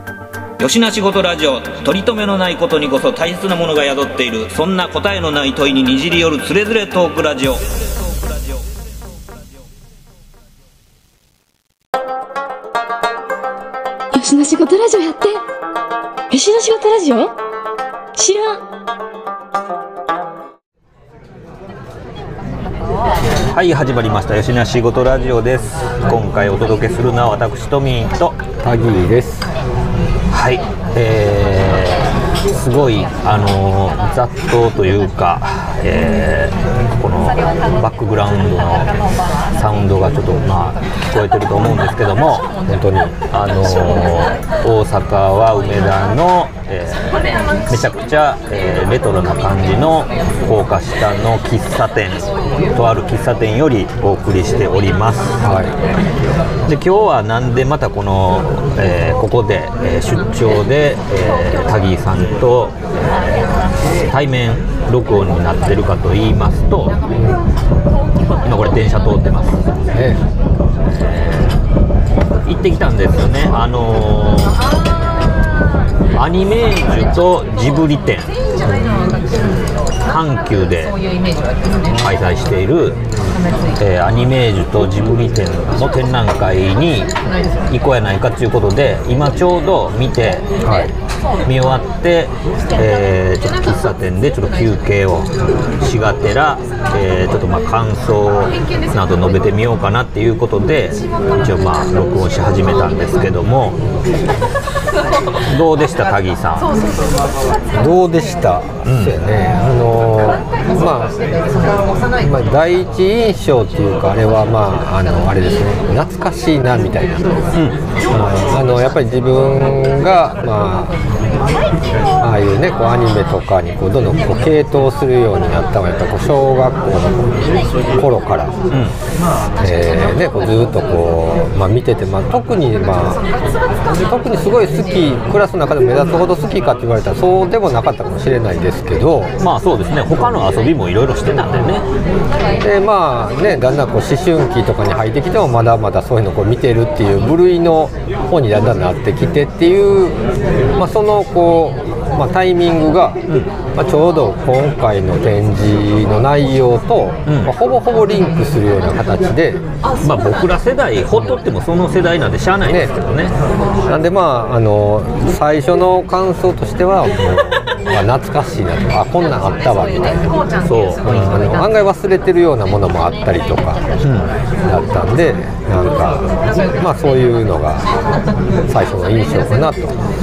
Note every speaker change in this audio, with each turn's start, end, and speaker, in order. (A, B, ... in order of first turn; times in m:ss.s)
0:00.6-0:07.6 A
0:14.1-0:15.4 B
0:16.3-0:17.3 B
0:18.2-0:18.6 B
0:23.5-0:28.4 A
0:28.6-0:29.5 C
0:30.3-0:38.9 A
0:39.5-0:42.5 A
0:42.7-0:43.2 C
0:43.3-0:55.4 A
0:55.4-0:55.7 C
0:56.7-1:02.8 A
1:04.0-1:07.0 A
1:07.1-1:07.4 C
1:08.4-1:09.6 A
1:09.9-1:10.2 C
1:10.8-1:11.6 A
1:12.4-1:14.7 A
1:16.1-1:18.4 A
1:18.7-1:19.1 C
1:20.1-1:21.0 A
1:21.8-1:23.0 A
1:23.8-1:27.2 A
1:27.7-1:30.9 A
1:30.6-1:30.9 C
1:31.4-1:43.8 A
1:45.4-1:46.8 A
1:47.7-1:51.2 C
1:48.8-1:49.2 A
1:52.2-1:57.3 C
1:58.1-2:01.0 C
2:02.2-2:08.6 C
2:09.6-2:13.3 C
2:13.9-2:19.3 C
2:19.4-2:21.8 A
2:22.6-2:30.2 C
2:30.8-2:33.2 C
2:33.8-2:39.6 C
2:37.3-2:37.5 A
2:40.0-2:43.4 A
2:42.6-2:42.9 C
2:43.9-2:50.4 C
2:50.6-2:51.4 A
2:51.0-2:53.8 C
2:54.0-2:54.3 A
2:54.7-2:57.9 C
2:58.7-3:00.0 C